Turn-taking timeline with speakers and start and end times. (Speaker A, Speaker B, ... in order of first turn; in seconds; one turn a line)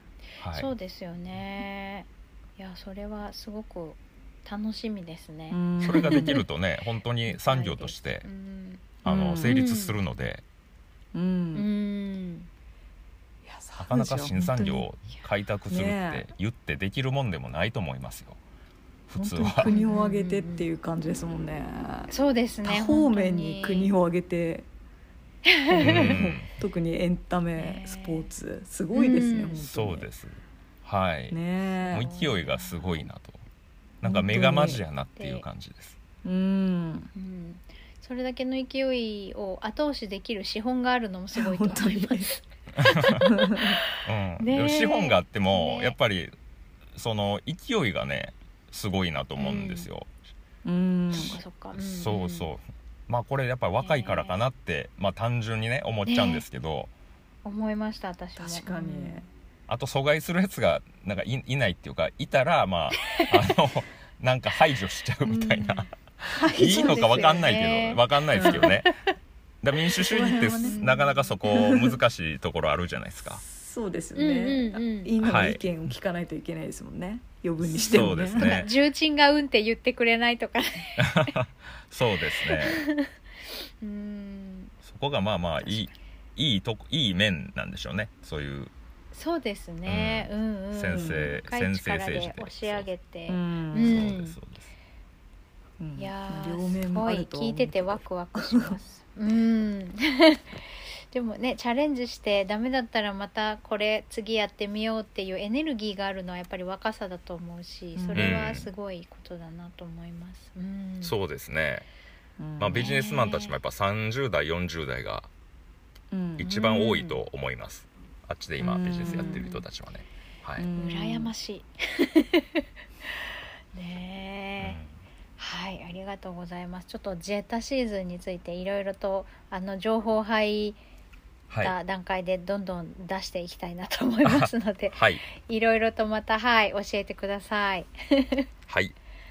Speaker A: 0.4-0.7
Speaker B: 0.5-6.4
Speaker C: 5.5-6.4
Speaker A: 5.8-8.3
Speaker B: 7.3-10.0
Speaker C: 9.0-9.6
Speaker A: 9.1-10.4
Speaker C: 11.1-11.7
Speaker B: 11.5-12.5
Speaker C: 13.4-14.9
Speaker A: 13.8-18.4
Speaker C: 15.7-16.3
Speaker A: 19.1-19.7
Speaker C: 19.2-22.1
Speaker B: 19.6-20.7
Speaker B: 22.1-23.9
Speaker C: 22.6-24.7
Speaker B: 25.4-26.2
Speaker C: 25.7-30.1
Speaker A: 25.8-26.5
Speaker B: 27.6-28.3
Speaker B: 28.9-29.6
Speaker A: 29.6-31.4
Speaker C: 31.3-32.1
Speaker B: 31.8-33.1
Speaker A: 31.9-33.4
Speaker A: 34.0-36.0
Speaker C: 34.0-34.8
Speaker B: 35.2-35.5
Speaker C: 36.2-37.1
Speaker B: 37.1-46.0
Speaker C: 41.4-42.3
Speaker A: 42.8-43.2
Speaker C: 43.2-43.8
Speaker A: 44.0-46.4
Speaker A: 47.0-50.1
Speaker B: 49.4-49.9
Speaker C: 50.6-51.4
Speaker B: 51.1-52.5
Speaker A: 51.8-56.9
Speaker B: 53.8-54.4
Speaker B: 56.1-56.4
Speaker B: 57.5-59.2
Speaker C: 58.4-59.3
Speaker A: 59.7-68.9
Speaker B: 63.0-63.3
Speaker C: 65.3-67.5
Speaker B: 66.5-69.1
Speaker C: 68.3-68.8
Speaker A: 69.6-73.4
Speaker C: 70.0-70.8
Speaker B: 70.3-71.1
Speaker C: 71.4-72.0
Speaker C: 73.4-78.6
Speaker B: 74.2-75.1
Speaker A: 75.2-75.6
Speaker A: 77.8-78.7
Speaker B: 78.3-81.3
Speaker A: 81.0-82.9
Speaker B: 82.5-84.7
Speaker A: 84.8-88.7
Speaker B: 85.6-86.0
Speaker B: 89.1-94.4
Speaker A: 89.8-92.9
Speaker C: 90.9-91.3
Speaker C: 93.3-94.1
Speaker A: 93.8-94.7
Speaker C: 95.8-98.8
Speaker B: 96.0-111.2
Speaker C: 108.0-108.6
Speaker A: 108.1-108.7
Speaker A: 111.0-111.9
Speaker C: 112.4-113.0
Speaker A: 112.6-115.3
Speaker B: 112.7-113.5
Speaker C: 116.1-117.2
Speaker A: 116.4-120.7
Speaker C: 118.6-119.5
Speaker B: 119.0-119.6
Speaker C: 120.6-121.3
Speaker B: 120.8-124.8
Speaker A: 124.6-124.9
Speaker B: 125.4-130.8
Speaker A: 131.5-131.8
Speaker B: 131.6-138.5
Speaker A: 134.2-135.2
Speaker A: 138.7-138.9